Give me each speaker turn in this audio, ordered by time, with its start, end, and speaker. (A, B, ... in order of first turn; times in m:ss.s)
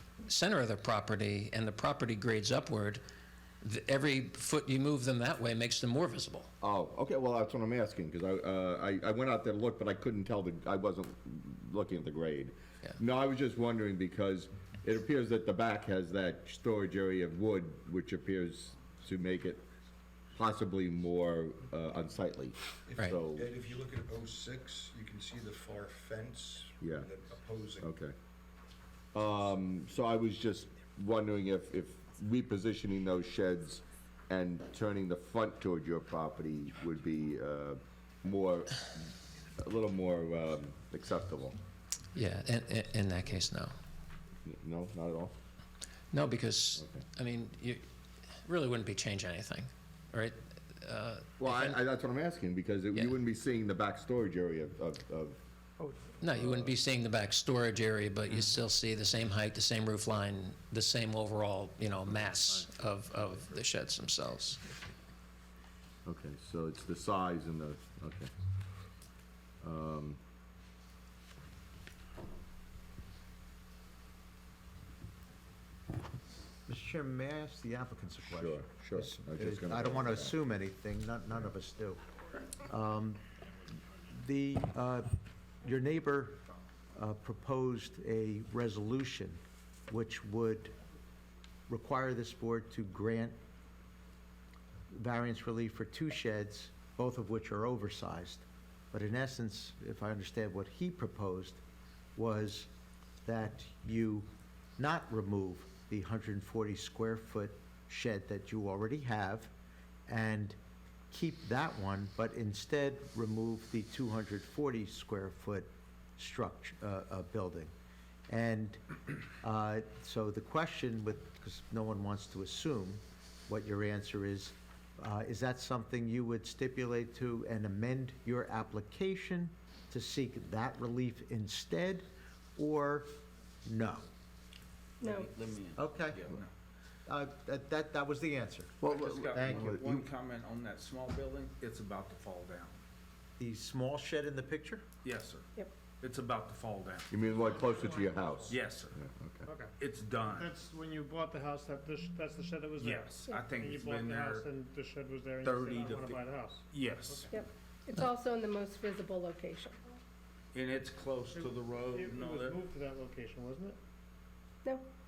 0:00.3-0:03.0 A
0:03.6-0:06.5 A
0:06.6-0:19.6 B
0:20.3-0:23.5 B
0:22.9-0:27.9 C
0:26.8-0:27.1 B
0:27.8-0:28.1 B
0:29.1-0:41.6 B
0:42.1-0:43.7 A
0:44.4-0:45.3 B
0:46.1-0:47.8 A
0:46.8-0:47.0 B
0:48.4-0:51.8 A
0:51.4-0:55.4 B
0:55.8-0:56.2 D
0:56.2-1:04.6 A
0:56.4-0:56.7 B
0:58.3-0:58.6 B
1:06.0-1:08.3 B
1:09.6-1:10.2 B
1:16.7-1:22.0 E
1:18.3-1:20.4 B
1:22.6-1:23.2 E
1:24.1-1:26.4 E
1:26.9-1:30.8 E
1:31.7-1:33.4 E
1:34.9-1:41.6 E
1:42.1-1:42.7 E
1:43.2-1:49.5 E
1:50.1-1:50.6 E
1:51.1-1:57.7 E
1:58.3-2:14.1 E
2:15.0-2:16.5 F
2:15.0-2:15.3 G
2:15.8-2:16.2 E
2:17.1-2:20.0 E
2:18.8-2:22.8 F
2:18.8-2:20.0 B
2:23.4-2:24.8 E
2:25.0-2:27.6 F
2:27.1-2:29.5 B
2:27.4-2:28.6 E
2:28.5-2:29.0 F
2:29.4-2:29.8 D
2:29.8-2:30.5 F
2:30.3-2:37.2 D
2:32.8-2:34.5 F
2:35.4-2:37.3 F
2:37.3-2:40.0 G
2:40.5-2:42.6 F
2:41.3-2:43.8 D